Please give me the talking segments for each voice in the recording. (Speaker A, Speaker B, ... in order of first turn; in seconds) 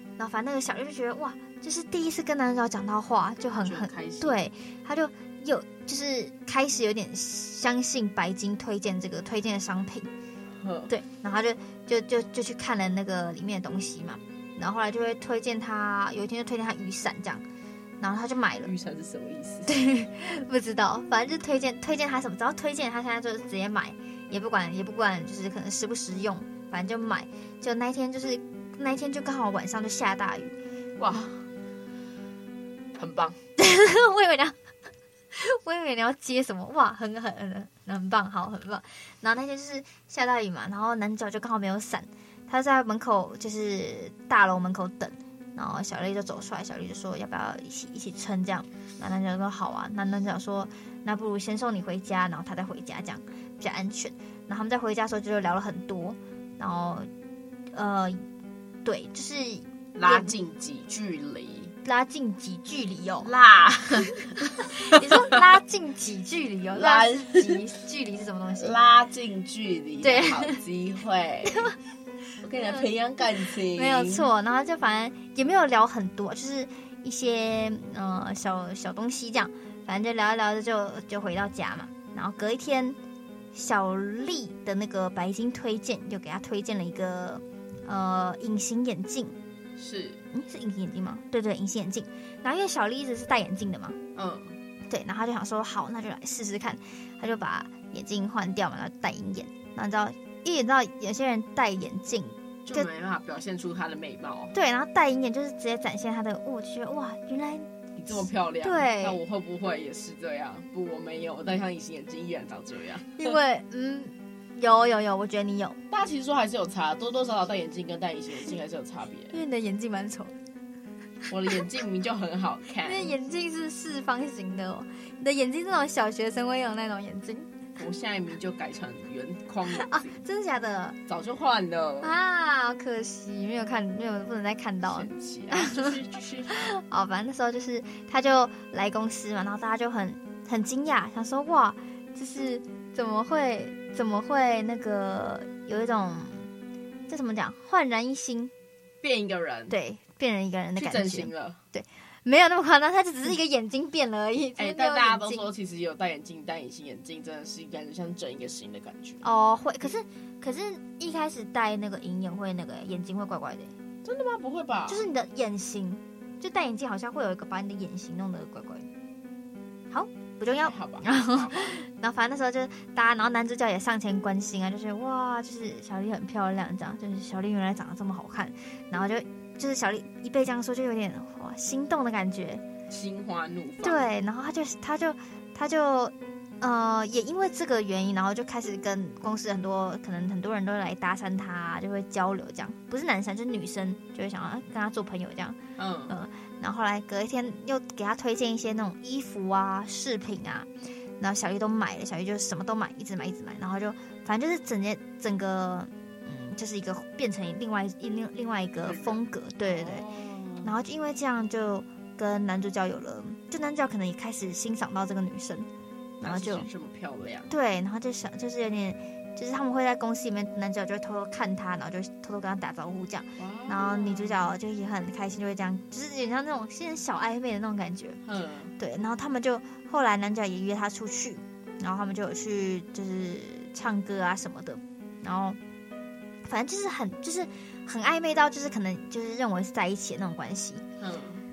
Speaker A: 0.2-10.1, 10.9-17.4, 18.0-18.7, 19.6-30.5, 33.6-34.5, 35.3-57.1, 57.7-58.2, 58.8-60.3, 61.8-63.3, 64.6-68.7, 70.0-70.6, 71.5-71.8, 72.6-72.9, 73.7-83.0, 83.5-89.4, 90.3-94.0, 94.9-102.8, 104.5-109.2, 113.2-115.8, 119.3-120.3, 122.8-127.5, 129.7-131.0, 132.0-136.0, 136.5-146.5, 147.1-148.5, 149.7-155.5, 159.2-163.7, 164.9-168.9, 169.9-182.6, 183.8-195.6, 196.1-200.7, 201.2-210.1, 210.6-215.7, 216.2-216.7, 217.5-228.2, 228.8-235.6, 236.4-240.8
Speaker B: 3.6-4.4, 10.6-10.9, 18.6-19.7, 31.0-31.4, 33.0-33.4, 59.9-61.7, 63.2-65.4, 66.7-67.6, 68.5-71.7, 72.4-74.3, 89.8-90.2, 94.1-94.6, 102.7-104.5, 108.0-113.4, 115.9-119.4, 121.3-123.1, 127.8-130.2, 131.1-132.1, 134.8-136.6, 149.0-149.7, 150.8-151.6, 154.6-159.2, 164.0-165.1, 170.6-171.8, 182.9-184.1, 195.8-196.2, 208.8-210.7, 216.2-217.5, 223.4-224.5, 228.2-228.7, 241.0-241.4